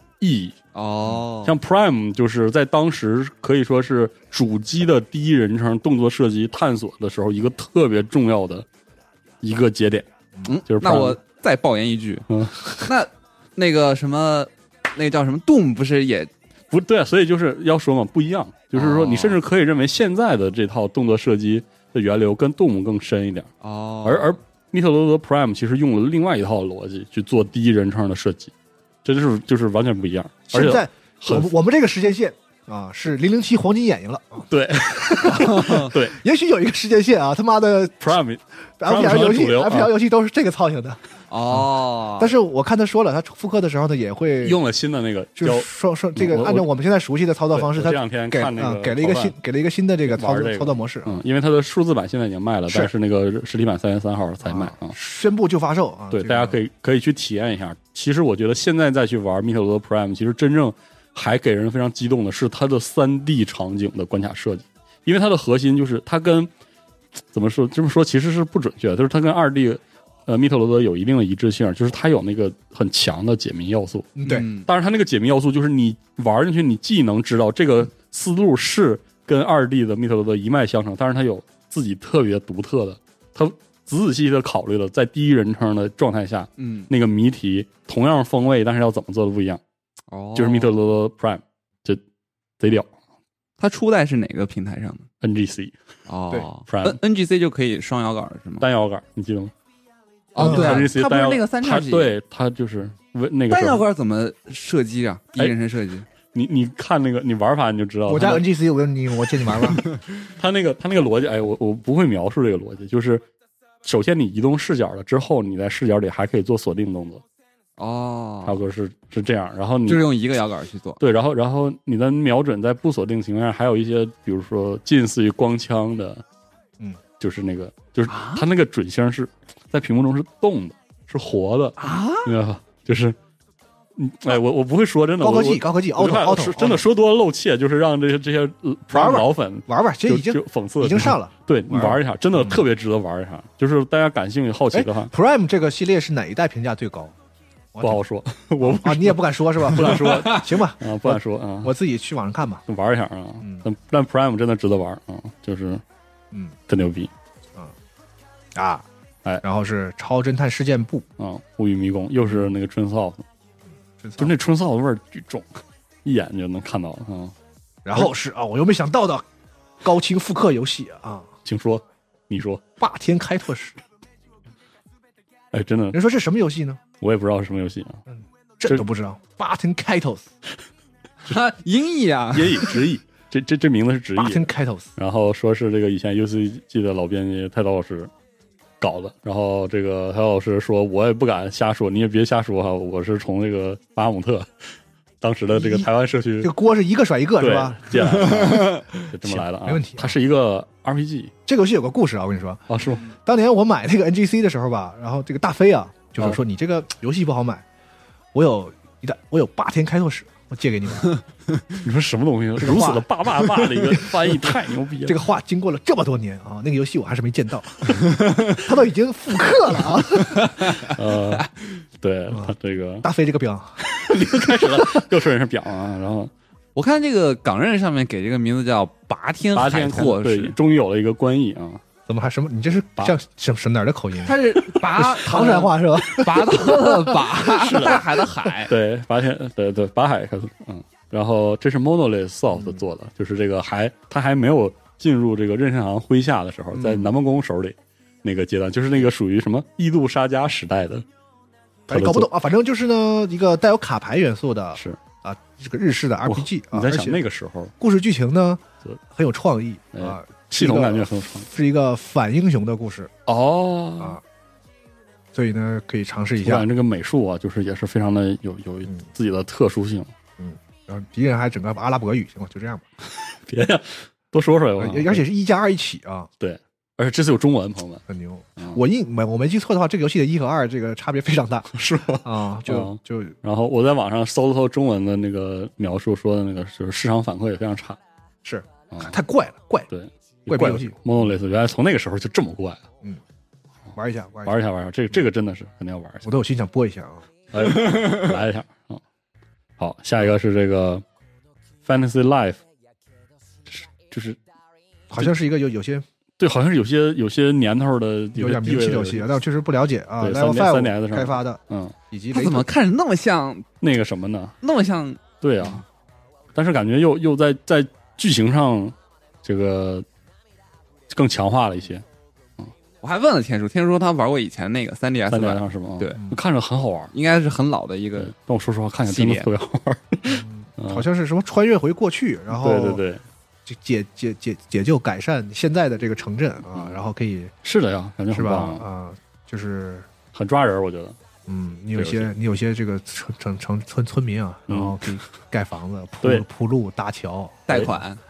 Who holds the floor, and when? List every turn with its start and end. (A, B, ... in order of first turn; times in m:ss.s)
0:00.2-0:00.6 A
0:00.7-0:01.6 B
0:01.4-0:08.6 A
0:09.4-0:10.1 A
0:10.4-0:16.3 B
0:10.7-0:11.2 A
0:12.3-0:12.9 A
0:16.7-0:23.5 A
0:18.7-0:19.4 B
0:23.6-0:24.4 B
0:24.0-0:28.5 A
0:29.0-0:31.5 A
0:30.5-0:38.1 C
0:34.5-0:36.2 A
0:35.4-0:35.8 B
0:38.0-0:39.9 A
0:38.8-0:41.0 C
0:41.3-0:42.3 B
0:42.2-0:44.6 C
0:44.4-0:46.7 A
0:45.4-0:51.2 C
0:47.5-0:49.3 A
0:50.1-0:55.0 A
0:54.4-0:56.6 C
0:56.1-1:06.5 A
1:07.3-1:29.6 A
1:14.2-1:14.5 C
1:14.2-1:14.7 B
1:26.6-1:26.9 B
1:30.1-1:30.7 B
1:30.3-1:32.0 A
1:32.6-1:32.9 A
1:33.6-1:35.1 B
1:35.2-1:35.7 A
1:36.1-1:38.6 B
1:36.7-1:37.0 A
1:38.6-1:39.5 A
1:40.3-1:42.1 B
1:40.3-1:43.8 A
1:40.4-1:40.9 C
1:43.5-1:46.1 B
1:46.3-1:48.4 A
1:48.1-1:49.8 C
1:49.4-1:49.8 A
1:50.4-1:53.2 A
1:53.8-1:57.2 A
1:57.8-1:58.6 B
1:58.4-2:00.0 A
1:59.8-2:01.0 B
2:01.0-2:06.2 A
2:07.2-2:13.2 A
2:08.1-2:08.4 B
2:11.8-2:12.3 B
2:14.0-2:25.1 A
2:15.2-2:16.8 C
2:18.9-2:22.6 C
2:24.7-2:27.1 C
2:27.7-2:28.0 C
2:27.8-2:31.7 A
2:28.6-2:32.6 C
2:29.8-2:30.4 B
2:32.7-2:35.8 A
2:36.7-2:37.1 A
2:38.5-2:38.8 C
2:39.4-2:41.0 C
2:41.2-2:43.2 A
2:44.0-2:44.3 C
2:44.2-2:47.3 A
2:47.8-2:49.2 C
2:49.8-2:51.3 C
2:51.4-2:52.6 A
2:52.8-2:53.8 C
2:55.5-2:56.0 A
2:55.9-2:56.8 C
2:57.0-2:58.0 A
2:58.1-3:00.3 C
3:01.2-3:02.8 B
3:02.3-3:08.1 A
3:04.2-3:04.9 C
3:08.8-3:16.5 A
3:15.5-3:15.9 C
3:16.4-3:20.1 C
3:17.4-3:21.3 A
3:21.4-3:22.6 C
3:22.7-3:23.0 A
3:23.2-3:27.6 C
3:28.3-3:31.2 C
3:31.8-3:35.2 A
3:32.6-3:40.9 C
3:40.9-3:43.0 A
3:42.3-3:45.0 C
3:43.8-3:46.3 A
3:46.7-3:50.6 B
3:49.5-3:51.8 A
3:52.1-3:58.0 C
3:54.2-3:58.7 B
3:57.5-3:58.1 A
3:58.6-4:11.0 A
4:02.5-4:02.8 C
4:06.7-4:07.1 C
4:11.9-4:17.2 C
4:11.9-4:12.3 A
4:16.2-4:17.7 A
4:17.8-4:23.1 C
4:19.9-4:21.5 A
4:23.2-4:24.2 A
4:25.3-4:26.7 C
4:26.4-4:30.1 A
4:30.4-4:32.8 C
4:33.2-4:35.2 A
4:34.8-4:36.3 C
4:36.4-4:38.0 A
4:38.1-4:43.4 C
4:41.7-4:48.0 A
4:48.4-4:49.9 C
4:48.9-4:49.2 A
4:49.9-4:52.8 A
4:50.5-4:51.0 C
4:53.9-4:54.6 C
4:54.4-4:56.3 A
4:56.2-4:57.2 C
4:57.5-4:59.0 A
4:59.8-5:01.0 A
5:01.8-5:02.6 A
5:03.7-5:04.4 A
5:05.1-5:06.0 C
5:06.4-5:09.4 A
5:08.3-5:12.7 C
5:10.2-5:11.9 A
5:12.3-5:13.7 B
5:13.8-5:14.5 A
5:14.6-5:15.2 B
5:15.4-5:15.8 A
5:16.5-5:20.0 A
5:21.1-5:22.0 A
5:23.0-5:26.2 B
5:25.3-5:27.1 A
5:27.1-5:28.3 B
5:28.2-5:31.0 A
5:29.0-5:29.5 B
5:30.3-5:33.0 C
5:32.5-5:33.2 A
5:33.7-5:37.5 C
5:36.7-5:37.0 A
5:37.6-5:38.8 A
5:38.3-5:40.1 C
5:40.3-5:41.2 A
5:41.5-5:47.6 C
5:41.9-5:42.3 A
5:44.7-5:45.1 A
5:47.7-5:48.2 B